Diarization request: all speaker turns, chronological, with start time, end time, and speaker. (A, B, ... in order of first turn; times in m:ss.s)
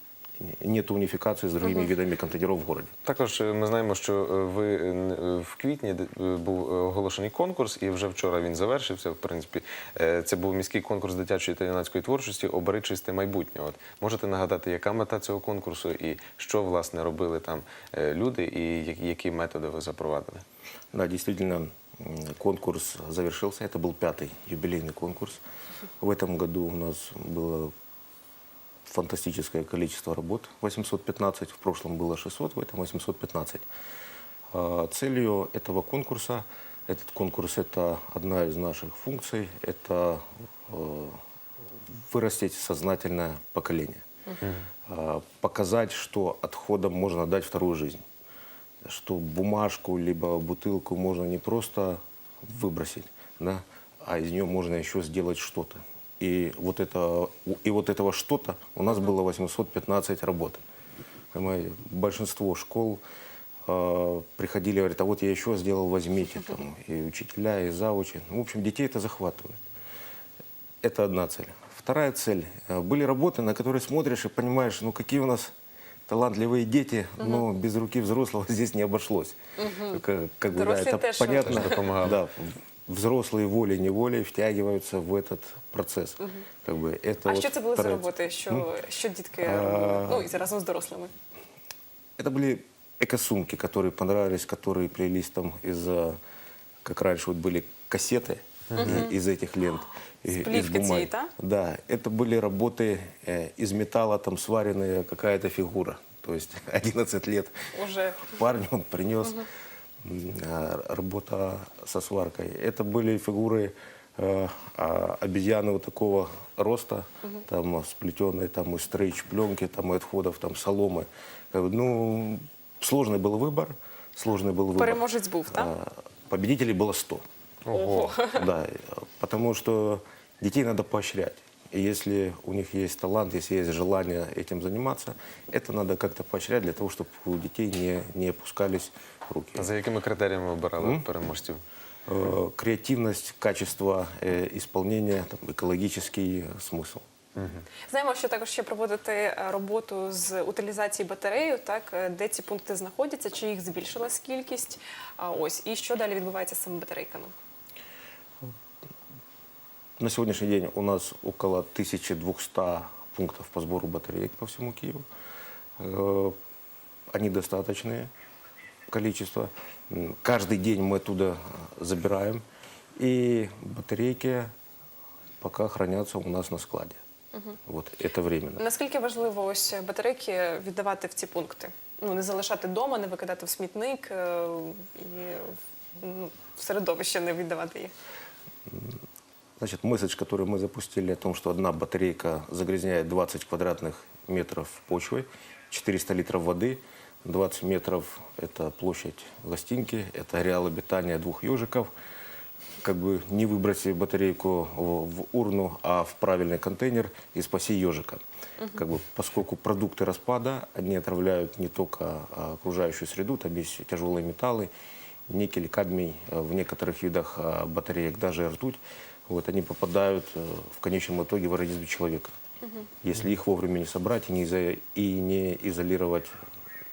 0:00.4-0:02.9 A
0:03.0-0:20.4 B
0:20.9-0:25.4 A
0:26.0-0:27.7 A
0:28.8-0:33.6 A
0:34.5-0:41.2 A
0:41.9-0:44.0 A
0:44.4-0:44.7 B
0:44.9-0:48.0 A
0:48.8-1:00.6 A
1:01.3-1:03.0 A
1:03.6-1:09.6 A
1:10.8-1:15.5 A
1:16.1-1:28.7 A
1:17.2-1:17.4 C
1:19.6-1:21.9 C
1:21.4-1:22.2 B
1:27.2-1:31.1 C
1:29.4-1:30.3 A
1:32.2-1:36.2 A
1:36.8-1:47.5 A
1:38.7-1:39.0 B
1:38.7-1:39.1 C
1:40.3-1:41.3 C
1:47.7-1:48.3 C
1:48.3-1:49.4 A
1:50.0-2:07.2 A
2:04.8-2:05.7 C
2:07.6-2:08.1 B
2:07.7-2:08.5 C
2:08.2-2:19.7 A
2:19.5-2:21.6 B
2:20.8-2:21.0 A
2:22.1-2:27.0 A
2:27.4-2:27.6 B
2:27.9-2:37.3 C
2:40.0-2:45.0 A
2:45.8-2:46.4 A
2:47.1-2:48.1 A
2:48.9-2:52.4 A
2:53.0-2:54.5 A
2:55.4-2:57.0 A
2:57.3-2:57.6 C
2:57.6-2:58.6 A
2:58.6-3:07.9 C
3:09.6-3:21.9 A
3:22.8-3:28.2 A
3:28.7-3:34.7 A
3:35.3-3:42.3 A
3:43.0-3:46.3 A